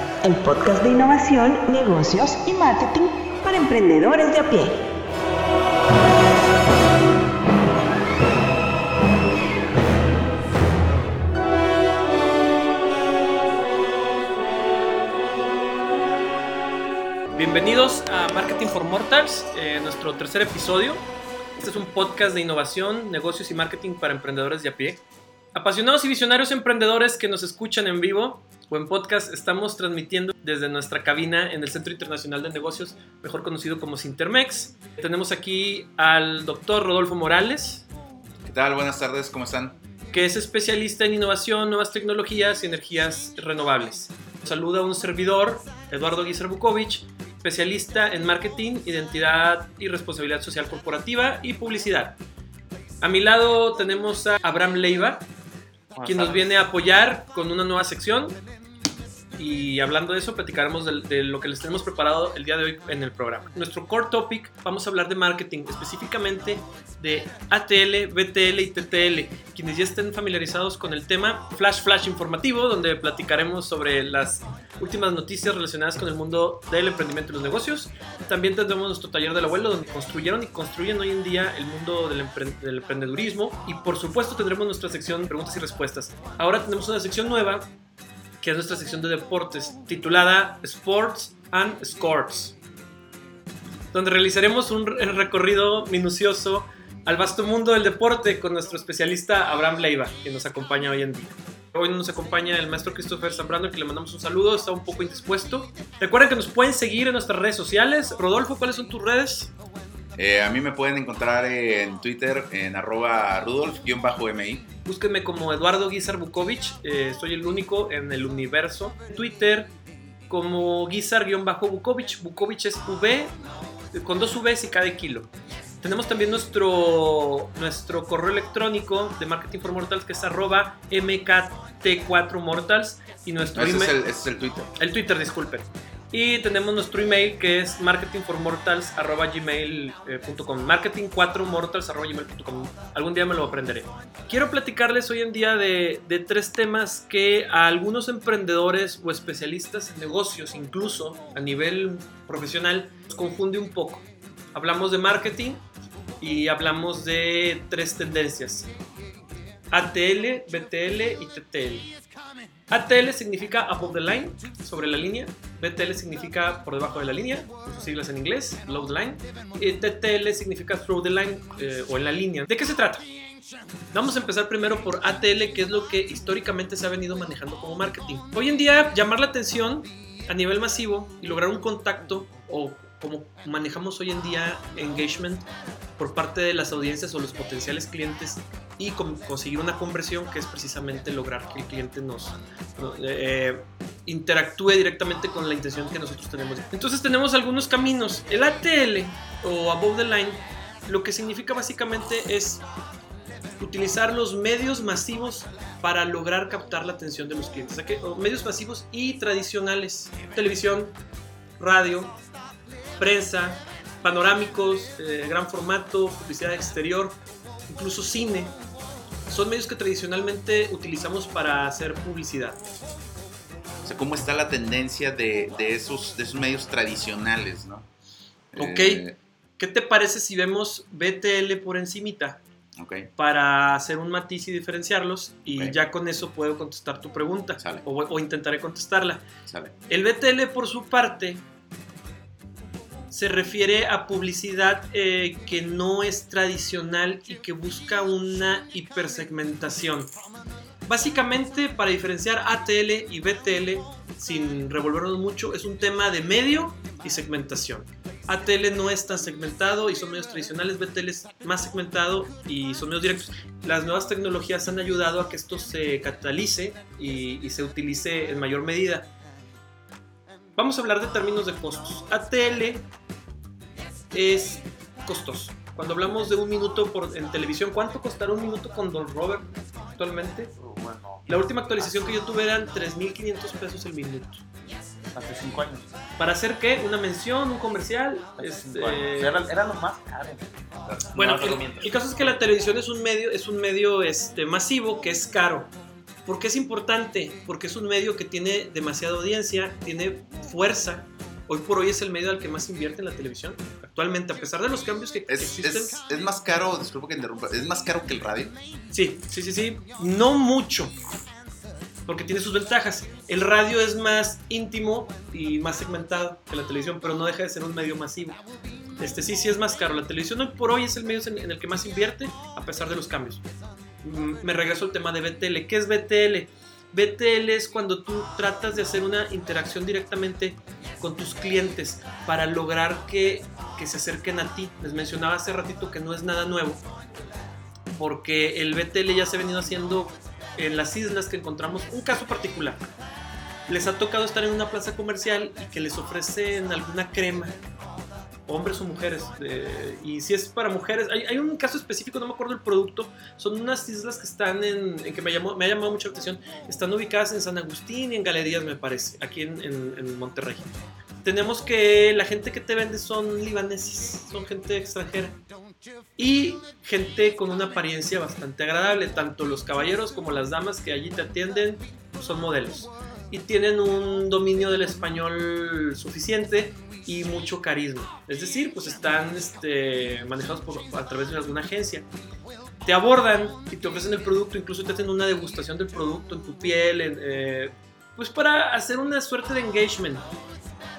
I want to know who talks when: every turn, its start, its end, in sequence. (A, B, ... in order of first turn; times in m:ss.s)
0:00.2-0:04.8 A
0:17.3-0:21.0 B
0:21.6-0:25.0 B
0:25.5-0:37.8 B
0:38.4-0:39.8 C
0:40.1-0:52.2 B
0:53.0-0:55.2 B
0:55.9-0:56.5 D
0:56.0-0:58.4 B
0:59.4-1:27.7 B
1:28.4-1:32.5 B
1:33.9-1:49.5 B
1:50.2-1:54.6 C
1:54.8-1:59.7 B
2:00.3-2:03.3 B
2:03.9-2:05.3 B
2:05.8-2:14.0 B
2:13.5-2:14.7 C
2:14.8-2:35.6 B
2:36.2-2:38.7 B
2:39.7-2:41.9 B
2:42.7-2:53.0 B
2:53.9-3:05.4 B
3:06.0-3:22.6 B
3:23.6-3:30.9 B
3:31.6-3:32.2 B
3:33.0-3:37.1 B
3:37.7-3:38.5 B
3:39.3-3:42.6 B
3:43.8-3:47.9 C
3:48.5-3:49.2 C
3:48.6-3:49.0 B
3:49.6-3:52.4 B
3:52.8-3:53.1 C
3:53.2-3:59.2 B
3:57.6-3:57.8 C
3:59.5-3:59.7 C
3:59.9-4:01.4 B
4:03.1-4:10.1 B
4:10.8-4:29.1 B
4:30.6-4:32.8 B
4:34.1-4:40.5 B
4:40.6-4:41.9 D
4:41.3-4:44.4 B
4:45.1-4:45.9 D
4:46.2-4:49.4 B
4:48.4-4:52.3 D
4:51.1-4:55.7 B
4:56.2-5:06.0 B
5:05.3-5:08.5 C
5:08.9-5:10.9 B
5:12.0-5:18.4 B
5:19.0-5:23.4 B
5:24.0-5:36.8 B
5:37.9-5:42.9 B
5:43.7-5:47.5 B
5:48.5-6:00.7 B
6:01.2-6:05.4 B
6:06.2-6:22.0 B
6:22.8-6:30.2 B